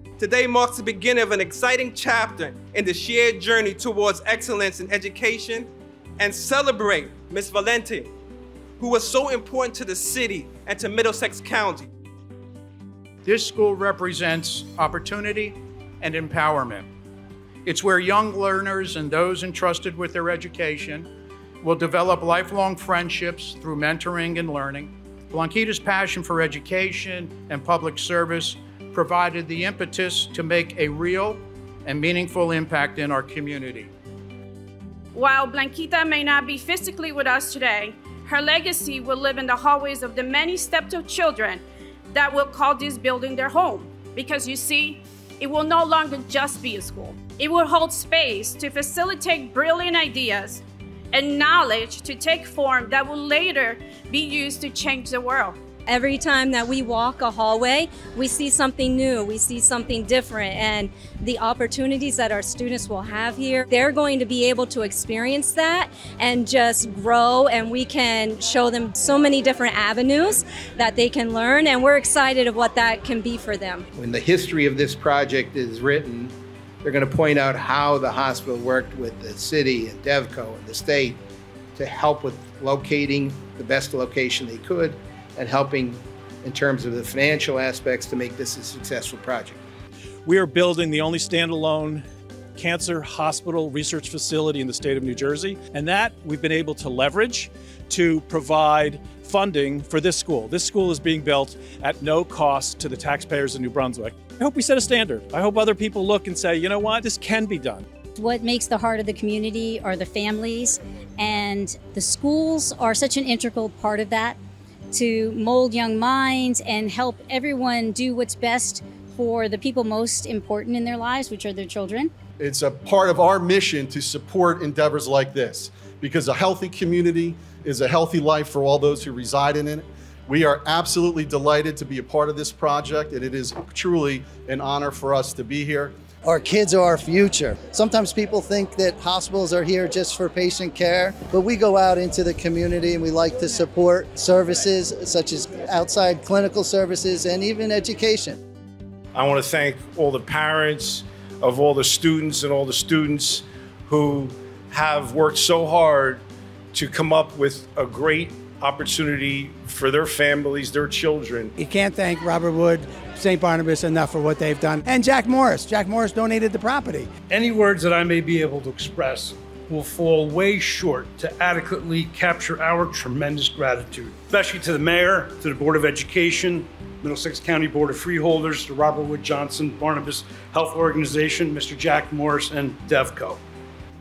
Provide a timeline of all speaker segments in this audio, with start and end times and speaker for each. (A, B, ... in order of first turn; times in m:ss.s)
0:00.2-0:08.1 A
0:08.8-0:11.9 A
0:13.2-0:16.9 B
0:17.7-0:21.1 B
0:21.6-0:33.9 B
0:35.2-0:55.6 C
0:55.9-1:13.8 D
1:14.0-1:16.3 E
1:16.8-1:21.2 E
1:21.8-1:29.6 E
1:30.3-1:32.0 F
1:32.6-1:47.9 F
1:48.2-1:54.4 G
1:54.9-2:02.1 G
2:02.4-2:16.0 H
2:16.2-2:28.4 I
2:29.1-2:41.5 J
2:41.6-2:47.1 K
2:47.3-3:03.4 L